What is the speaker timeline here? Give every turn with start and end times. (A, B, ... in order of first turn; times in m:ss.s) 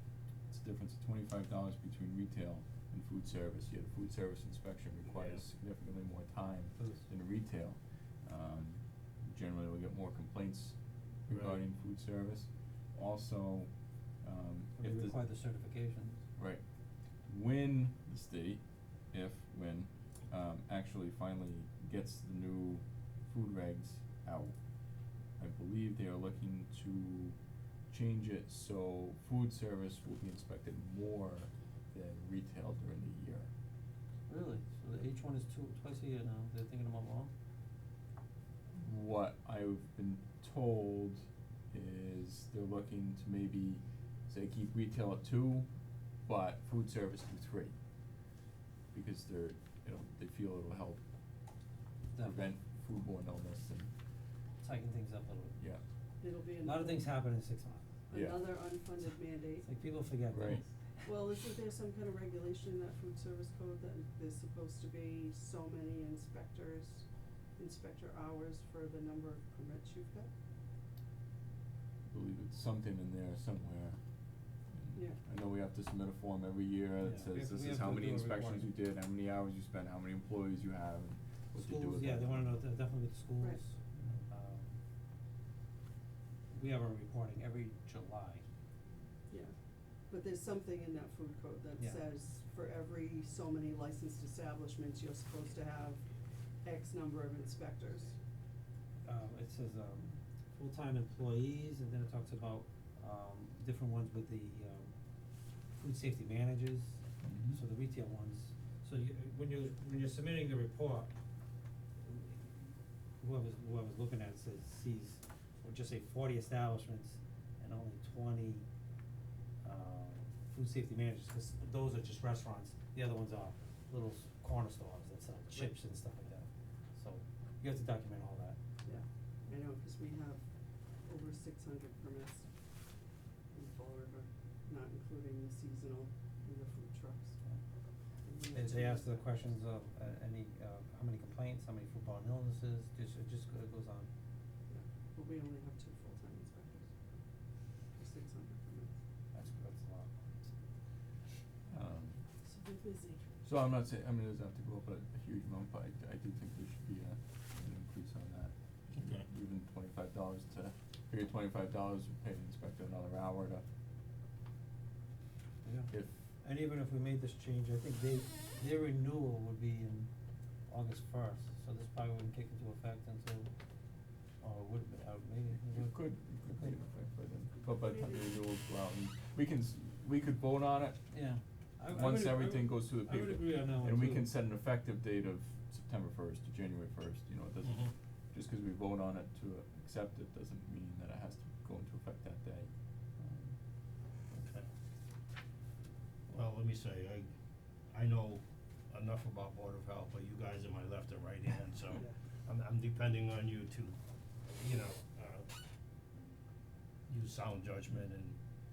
0:00.5-0:15.2 A
0:05.2-0:05.4 B
0:06.8-0:07.1 C
0:11.3-0:11.6 B
0:14.8-0:16.2 C
0:16.4-0:16.6 A
0:17.2-0:24.7 A
0:25.4-0:27.4 A
0:27.9-0:33.5 A
0:34.3-0:37.3 C
0:38.7-0:45.7 A
0:46.2-0:47.7 A
0:48.9-0:51.0 A
0:52.1-0:53.9 A
0:54.6-0:55.6 C
0:56.2-0:57.1 D
0:56.6-0:57.9 C
0:58.1-0:59.7 D
0:58.1-0:58.6 A
0:59.6-1:00.7 C
1:00.3-1:00.6 A
1:01.0-1:07.0 D
1:07.6-1:10.3 D
1:12.1-1:14.0 A
1:14.7-1:22.6 A
1:14.9-1:15.2 D
1:17.0-1:18.7 C
1:21.6-1:24.8 C
1:26.5-1:28.4 C
1:29.3-1:29.5 D
1:30.1-1:36.0 D
1:31.8-1:32.0 C
1:36.6-1:38.2 D
1:39.0-1:44.9 C
1:45.7-1:51.1 C
1:47.2-1:47.6 A
1:52.0-1:58.6 C
1:59.6-2:08.6 C
2:08.8-2:10.4 D
2:11.0-2:12.5 D
2:13.5-2:17.4 D
2:18.2-2:19.4 D
2:18.5-2:24.1 C
2:24.7-2:26.9 D
2:27.9-2:28.9 D
2:29.3-2:30.5 C
2:31.7-2:32.2 A
2:32.4-2:33.4 D
2:33.4-2:43.6 A
2:38.9-2:39.2 B
2:45.6-2:50.1 C
2:50.7-2:53.5 C
2:54.4-2:56.8 C
2:55.7-3:01.0 A
2:57.8-2:58.2 D
3:01.1-3:04.3 C
3:01.9-3:12.7 A
3:07.6-3:07.9 B
3:13.2-3:13.6 C
3:14.3-3:14.6 B
3:16.3-3:17.3 B
3:17.9-3:24.0 B
3:24.5-3:25.5 B
3:27.1-3:28.4 B